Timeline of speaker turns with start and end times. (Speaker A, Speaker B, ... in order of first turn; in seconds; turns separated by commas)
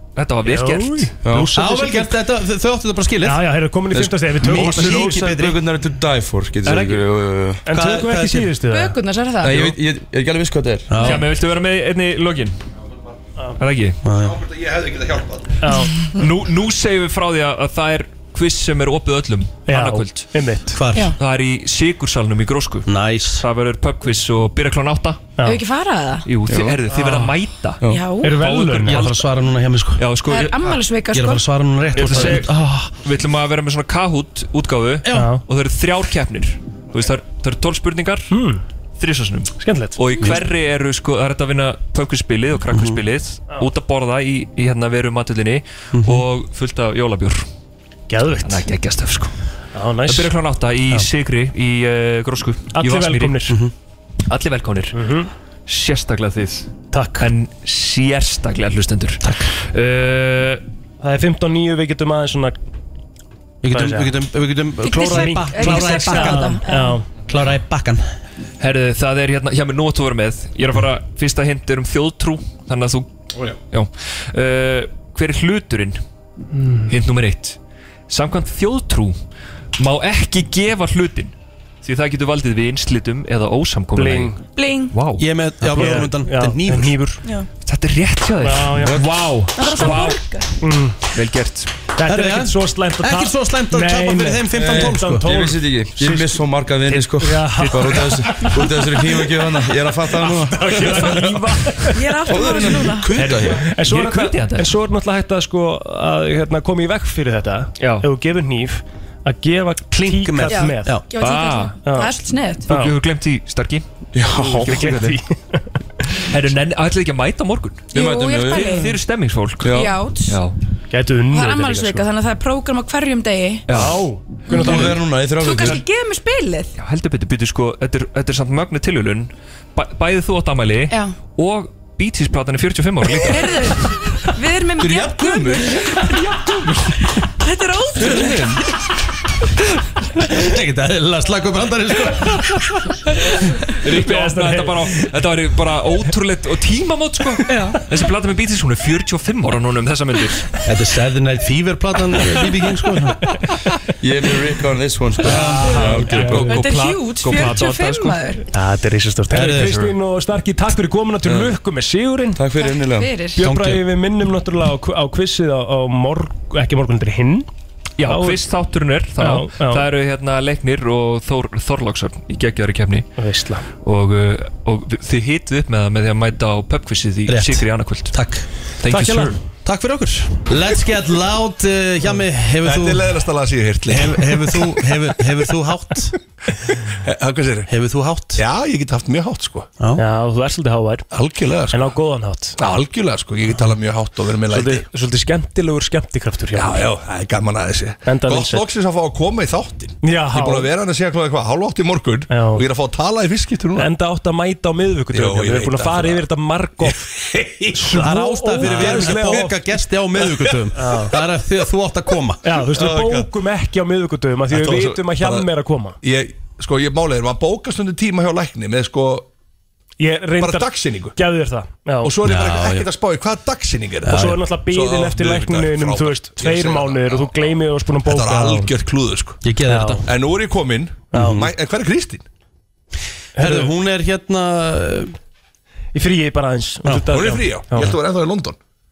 Speaker A: 0.1-1.1, Speaker B: 0.4-2.2, Speaker C: 1.2-1.5, Speaker D: 1.5-3.5, Speaker B: 3.2-5.4, Speaker C: 3.9-7.6, Speaker D: 4.4-5.6, Speaker A: 6.6-7.0, Speaker B: 7.6-9.0, Speaker D: 7.7-8.5, Speaker E: 8.7-9.7, Speaker C: 9.4-11.0, Speaker D: 10.9-11.3, Speaker A: 11.0-12.6, Speaker A: 13.6-14.0, Speaker D: 14.0-14.4, Speaker F: 14.1-15.6, Speaker B: 15.6-15.9, Speaker A: 16.1-20.3, Speaker B: 19.6-20.8, Speaker D: 20.7-21.1, Speaker A: 21.1-25.3, Speaker D: 22.9-23.4, Speaker E: 25.4-26.3, Speaker A: 26.2-29.3, Speaker C: 26.5-26.8, Speaker B: 26.9-27.3, Speaker E: 27.9-28.4, Speaker B: 28.2-29.1, Speaker D: 28.8-30.0, Speaker A: 29.9-30.7, Speaker E: 30.2-31.4, Speaker D: 31.1-32.9, Speaker A: 31.9-38.3, Speaker D: 35.0-35.3, Speaker B: 35.1-35.4, Speaker B: 38.3-38.6, Speaker A: 39.0-47.5, Speaker B: 39.6-40.0, Speaker D: 42.7-43.0, Speaker D: 45.9-46.2, Speaker B: 48.1-48.7, Speaker A: 48.4-49.3, Speaker B: 49.7-50.3, Speaker A: 50.1-53.6, Speaker B: 52.7-53.6, Speaker D: 53.5-53.7, Speaker A: 54.3-55.0, Speaker B: 54.9-55.3, Speaker A: 55.7-60.6, Speaker B: 56.9-57.3, Speaker D: 59.2-59.5, Speaker B: 61.0-62.6, Speaker D: 63.6-66.6, Speaker B: 63.7-64.1, Speaker E: 64.8-67.0, Speaker B: 65.0-67.0, Speaker D: 67.3-68.1, Speaker A: 68.6-73.1, Speaker A: 73.7-76.0, Speaker B: 76.5-76.9, Speaker A: 76.9-77.6, Speaker A: 78.1-79.2, Speaker A: 79.8-85.3, Speaker B: 83.9-84.4, Speaker E: 84.5-85.0, Speaker D: 85.2-87.0, Speaker B: 85.7-87.2, Speaker A: 87.6-90.2, Speaker B: 88.4-89.0, Speaker C: 88.8-89.1, Speaker E: 89.5-90.5, Speaker B: 90.6-91.0, Speaker A: 91.1-91.7, Speaker B: 91.9-99.0, Speaker D: 92.0-95.3, Speaker C: 94.6-101.4, Speaker A: 97.5-98.5, Speaker B: 100.2-102.5, Speaker A: 100.8-101.2, Speaker E: 101.9-103.1, Speaker C: 102.2-103.7, Speaker A: 103.1-104.7, Speaker B: 103.3-111.0, Speaker A: 107.8-108.1, Speaker D: 109.9-111.0, Speaker E: 110.5-112.7, Speaker A: 111.1-111.8, Speaker B: 111.8-112.1, Speaker A: 112.7-113.8, Speaker B: 112.7-113.0, Speaker C: 114.1-114.8, Speaker A: 114.3-115.2, Speaker B: 114.4-115.7, Speaker A: 116.2-120.5, Speaker C: 117.9-118.8, Speaker E: 117.9-119.0, Speaker C: 119.6-119.9, Speaker E: 119.7-120.4, Speaker B: 120.9-122.1, Speaker E: 121.3-123.7, Speaker A: 123.7-124.0, Speaker B: 123.7-125.0, Speaker D: 124.6-125.0, Speaker C: 124.6-125.8, Speaker E: 125.4-126.7, Speaker A: 126.8-133.9, Speaker E: 130.9-131.2, Speaker E: 133.2-136.4, Speaker C: 134.8-135.6, Speaker E: 137.1-138.5, Speaker D: 140.2-142.6, Speaker A: 143.8-150.6, Speaker B: 143.8-144.9, Speaker D: 150.6-153.2, Speaker C: 154.0-156.6, Speaker D: 155.2-156.4, Speaker B: 155.2-156.7, Speaker A: 155.3-158.2, Speaker E: 155.6-158.4, Speaker B: 158.5-162.4, Speaker D: 159.3-159.9, Speaker C: 162.3-163.1, Speaker E: 162.6-163.4, Speaker B: 163.3-167.5, Speaker D: 163.4-163.8, Speaker A: 168.0-173.1, Speaker B: 168.0-168.4, Speaker B: 169.2-169.9, Speaker B: 173.2-173.7, Speaker A: 173.7-178.2, Speaker D: 177.3-178.5, Speaker A: 178.8-179.4, Speaker B: 178.9-179.4, Speaker D: 179.6-183.2, Speaker F: 182.6-185.0, Speaker D: 183.9-186.1, Speaker F: 186.9-187.7, Speaker D: 187.7-188.4, Speaker F: 188.3-189.7, Speaker B: 189.9-191.1, Speaker F: 191.1-191.9, Speaker B: 191.7-192.6, Speaker F: 192.6-194.8, Speaker B: 194.5-196.8, Speaker F: 196.5-203.9, Speaker B: 198.0-198.6, Speaker B: 200.0-200.7, Speaker B: 202.3-202.6, Speaker B: 203.8-207.0, Speaker F: 205.1-206.2, Speaker F: 206.8-207.9, Speaker B: 207.7-209.8, Speaker D: 207.8-212.5, Speaker F: 208.6-209.5, Speaker F: 210.2-210.6, Speaker B: 210.7-211.1, Speaker B: 212.4-216.0, Speaker F: 212.7-213.3, Speaker F: 214.5-215.5, Speaker F: 216.0-219.3, Speaker B: 220.0-222.1, Speaker F: 220.4-221.2, Speaker F: 222.0-229.4, Speaker D: 222.2-222.9, Speaker D: 224.1-224.4, Speaker B: 224.1-228.7, Speaker D: 229.4-230.1, Speaker B: 229.7-230.0, Speaker F: 230.0-232.2, Speaker B: 231.1-231.4, Speaker D: 231.1-231.5, Speaker B: 233.3-233.7, Speaker D: 233.4-235.2, Speaker B: 235.9-237.9, Speaker F: 237.0-238.6